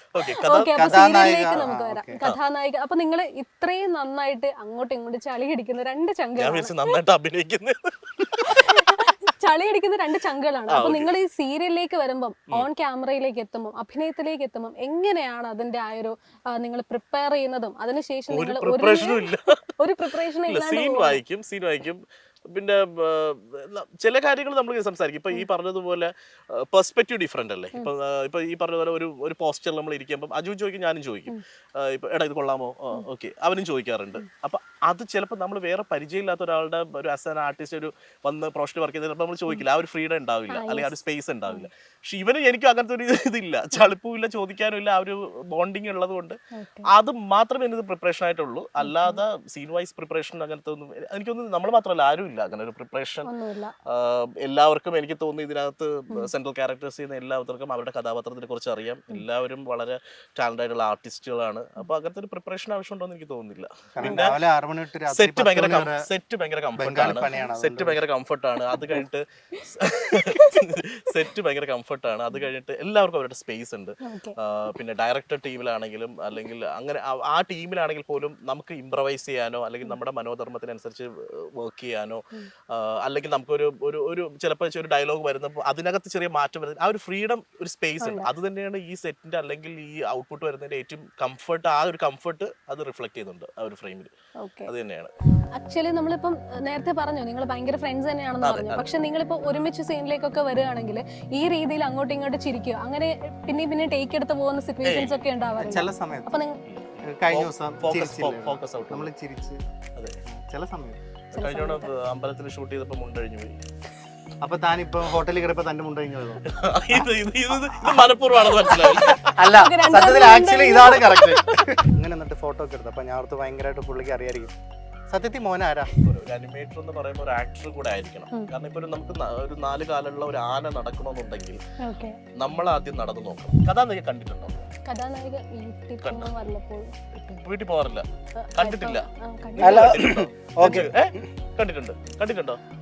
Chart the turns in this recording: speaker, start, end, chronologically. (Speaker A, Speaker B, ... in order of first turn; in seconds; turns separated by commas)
Speaker A: 0.1-1.7, Speaker B: 0.5-7.0, Speaker C: 0.8-2.2, Speaker A: 6.4-8.8, Speaker B: 8.5-21.2, Speaker A: 10.7-11.1, Speaker A: 18.3-19.6, Speaker A: 20.1-46.4, Speaker B: 40.5-41.7, Speaker B: 46.5-46.9, Speaker A: 46.9-53.3, Speaker B: 48.8-49.2, Speaker B: 53.2-53.7, Speaker A: 53.9-64.4, Speaker C: 64.0-66.1, Speaker A: 65.1-94.1, Speaker C: 66.8-68.0, Speaker B: 70.3-70.6, Speaker B: 74.0-74.4, Speaker B: 88.0-88.3, Speaker B: 94.4-94.7, Speaker A: 94.7-95.1, Speaker B: 95.6-106.6, Speaker A: 98.4-98.9, Speaker A: 104.8-105.2, Speaker C: 105.6-106.4, Speaker A: 106.7-109.1, Speaker C: 107.1-109.6, Speaker C: 110.4-111.0, Speaker B: 111.3-111.9, Speaker A: 111.3-113.6, Speaker C: 114.4-124.5, Speaker A: 116.5-119.3, Speaker B: 119.4-121.7, Speaker C: 125.1-125.9, Speaker A: 126.0-131.6, Speaker B: 131.8-132.2, Speaker A: 132.4-134.7, Speaker B: 134.8-136.9, Speaker A: 136.0-136.3, Speaker A: 137.2-142.6, Speaker B: 138.4-140.0, Speaker C: 139.6-141.2